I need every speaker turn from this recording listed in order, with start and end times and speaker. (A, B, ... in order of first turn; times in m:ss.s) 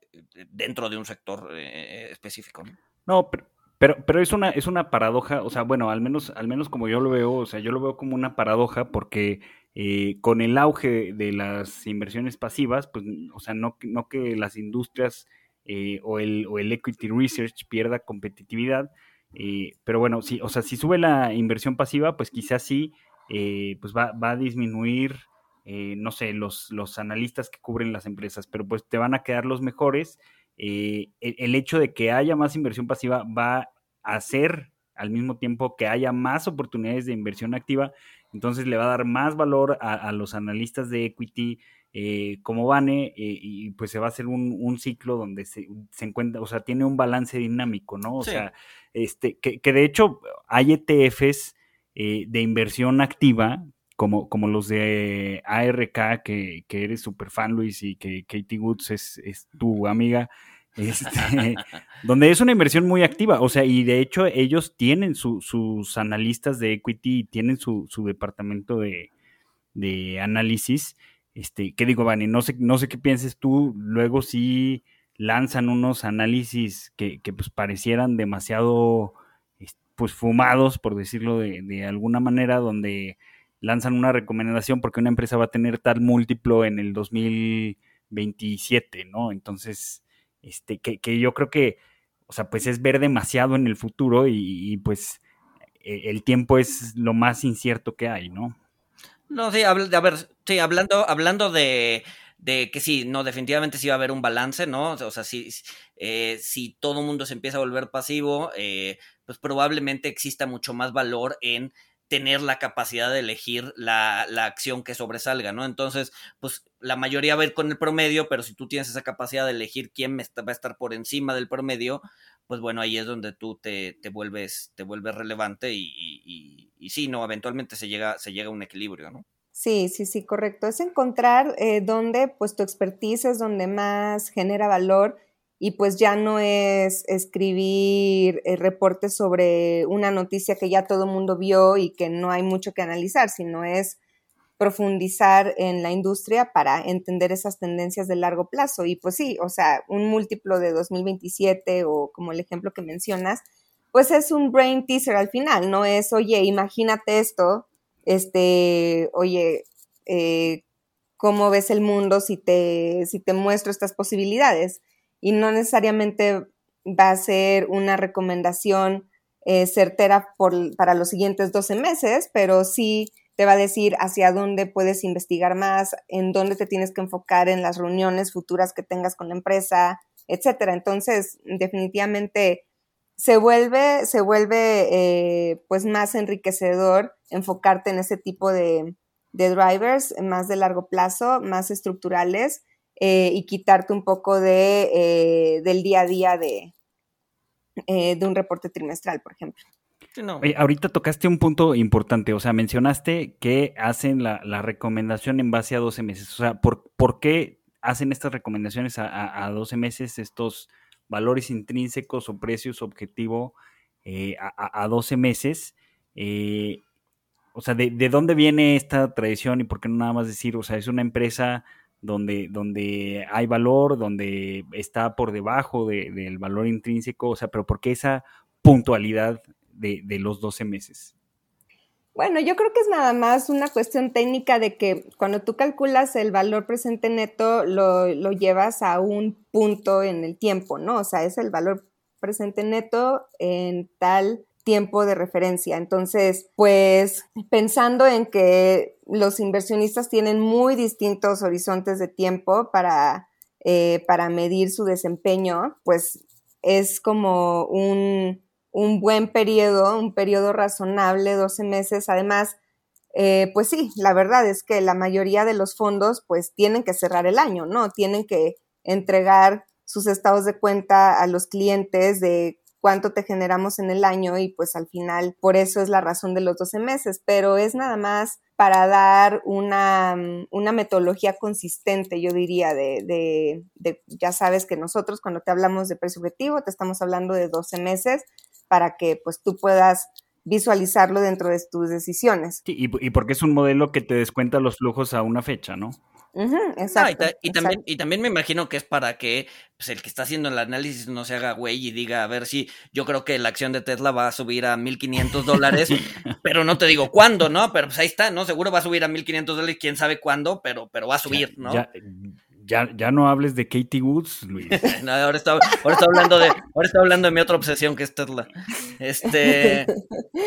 0:00.4-0:02.8 A
0:03.1-1:09.1 B
0:48.2-0:48.4 A
1:09.7-1:35.2 B
1:35.8-1:38.6 B
1:39.3-2:09.2 A
2:09.6-2:24.0 C
2:24.6-2:40.6 C
2:41.2-3:02.6 C
3:03.2-3:16.7 C
3:17.9-3:19.6 C
3:20.2-3:20.4 A
3:20.4-3:36.8 B
3:37.5-3:51.1 B
3:52.1-4:22.6 C
4:23.1-4:52.6 C
4:52.7-4:56.0 B
4:56.3-4:57.8 C
4:56.9-5:11.8 A
5:11.3-5:14.8 B
5:14.7-5:18.5 A
5:19.0-5:19.9 A
5:19.4-5:19.8 C